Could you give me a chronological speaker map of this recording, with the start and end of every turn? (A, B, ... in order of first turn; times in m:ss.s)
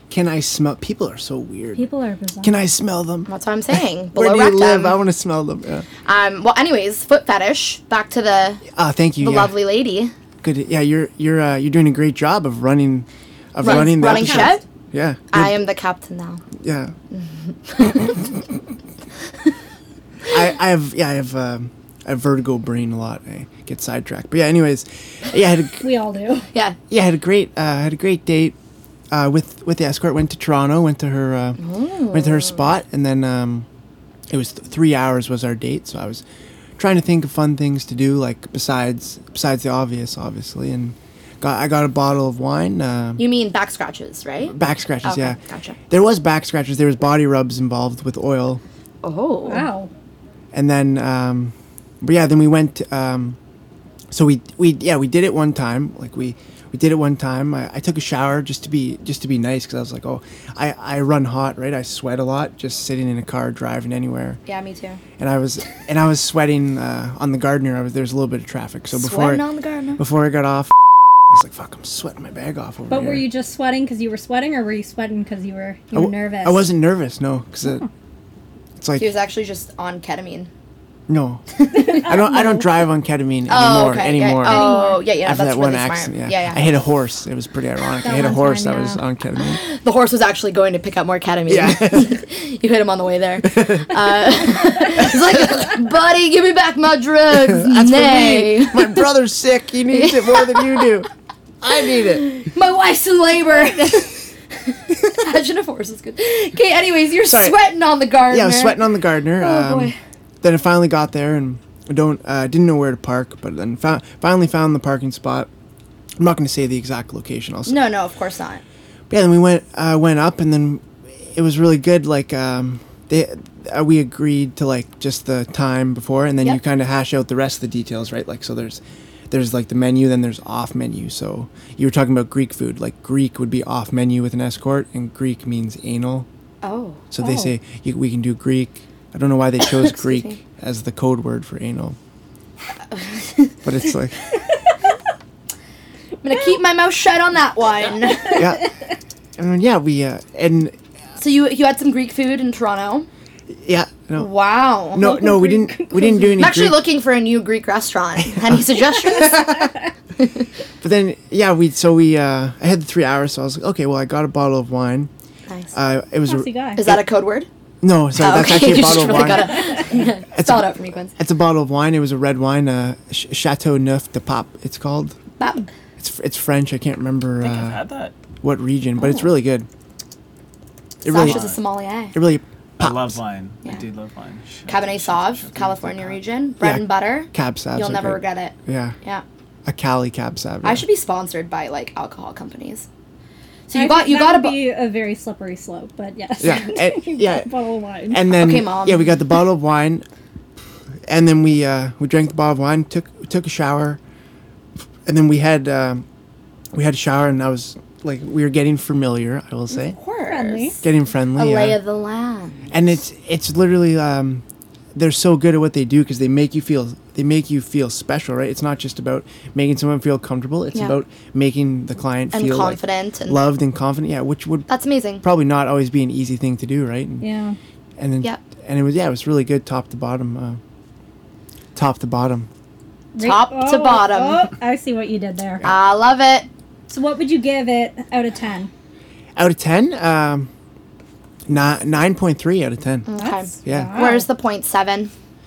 0:00.1-0:01.8 A
0:01.7-0:02.6 B
0:02.4-0:05.8 A
0:03.3-0:05.0 C
0:06.0-0:08.6 C
0:08.7-0:09.5 A
0:09.2-0:10.1 C
0:10.4-0:15.6 A
0:13.6-0:14.6 C
0:13.6-0:14.6 B
0:15.3-0:16.4 C
0:16.6-0:16.9 A
0:17.1-0:18.2 C
0:20.3-0:25.8 A
0:25.8-0:26.5 B
0:26.9-0:28.5 A
0:29.1-0:33.7 A
0:31.6-0:32.6 C
0:34.3-0:36.2 A
0:36.8-0:43.2 A
0:43.2-0:45.8 C
0:44.5-0:48.6 A
0:49.0-0:49.7 C
0:49.4-0:49.9 B
0:50.5-0:53.4 A
0:54.1-1:04.4 A
1:04.4-1:05.0 C
1:05.2-1:09.4 A
1:08.9-1:10.0 C
1:10.0-1:13.2 A
1:12.9-1:16.6 B
1:15.9-1:17.8 A
1:18.8-1:19.1 A
1:19.0-1:20.5 C
1:21.1-1:29.6 A
1:21.5-1:22.1 C
1:21.7-1:22.7 B
1:23.5-1:26.7 C
1:24.4-1:25.0 B
1:28.0-1:29.0 B
1:29.4-1:39.0 C
1:31.5-1:32.2 A
1:33.4-1:34.0 A
1:35.0-1:35.4 A
1:37.3-1:41.1 A
1:39.9-1:40.9 C
1:41.6-1:42.3 A
1:42.3-1:48.8 C
1:47.2-1:47.6 A
1:48.3-1:55.5 A
1:49.4-1:49.9 C
1:56.2-1:57.8 A
1:57.7-1:58.6 C
1:59.1-2:16.3 A
2:16.6-2:17.0 C
2:17.1-2:22.0 A
2:17.2-2:17.5 B
2:19.6-2:20.4 C
2:22.9-2:23.6 C
2:23.6-2:24.2 A
2:26.2-2:28.5 C
2:28.3-2:28.7 A
2:29.4-2:30.7 A
2:31.2-2:33.1 C
2:33.5-2:34.3 A
2:34.2-2:35.1 C
2:34.9-2:36.8 A
2:35.0-2:36.5 B
2:36.4-2:40.5 C
2:38.2-2:39.5 A
2:40.8-2:45.1 A
2:45.5-2:45.7 C
2:45.7-2:47.0 A
2:46.3-2:46.8 B
2:46.8-2:47.5 C
2:47.8-2:55.2 A
2:48.2-2:51.1 C
2:49.0-2:49.8 B
2:55.4-2:55.7 C
2:56.0-2:57.8 A
2:57.4-2:58.1 D
2:58.4-2:59.7 A
2:59.0-2:59.3 C
3:01.0-3:01.4 A
3:01.0-3:02.2 C
3:01.1-3:01.6 D
3:02.1-3:03.2 A
3:02.8-3:06.2 D
3:04.7-3:09.2 C
3:06.6-3:09.0 A
3:09.6-3:10.8 A
3:10.6-3:12.9 C
3:13.7-3:14.6 C
3:13.7-3:18.2 B
3:16.4-3:17.5 A
3:18.1-3:20.0 A
3:18.3-3:19.2 C
3:21.1-3:24.0 A
3:25.0-3:26.0 A
3:26.7-3:30.0 A
3:29.7-3:30.8 C
3:30.2-3:30.8 B
3:30.8-3:31.8 A
3:31.3-3:32.7 C
3:32.7-3:34.4 A
3:34.9-3:44.7 A
3:42.3-3:43.4 C
3:44.7-3:45.2 C
3:45.2-3:47.2 A
3:47.2-3:47.6 B
3:48.0-3:50.6 A
3:51.7-3:52.5 A
3:53.2-3:55.7 B
3:53.2-3:54.5 C
3:55.6-3:56.5 C
3:56.9-3:58.7 B
3:59.4-4:00.5 A
4:01.5-4:03.1 A
4:03.0-4:05.1 C
4:03.2-4:04.3 B
4:03.6-4:04.0 A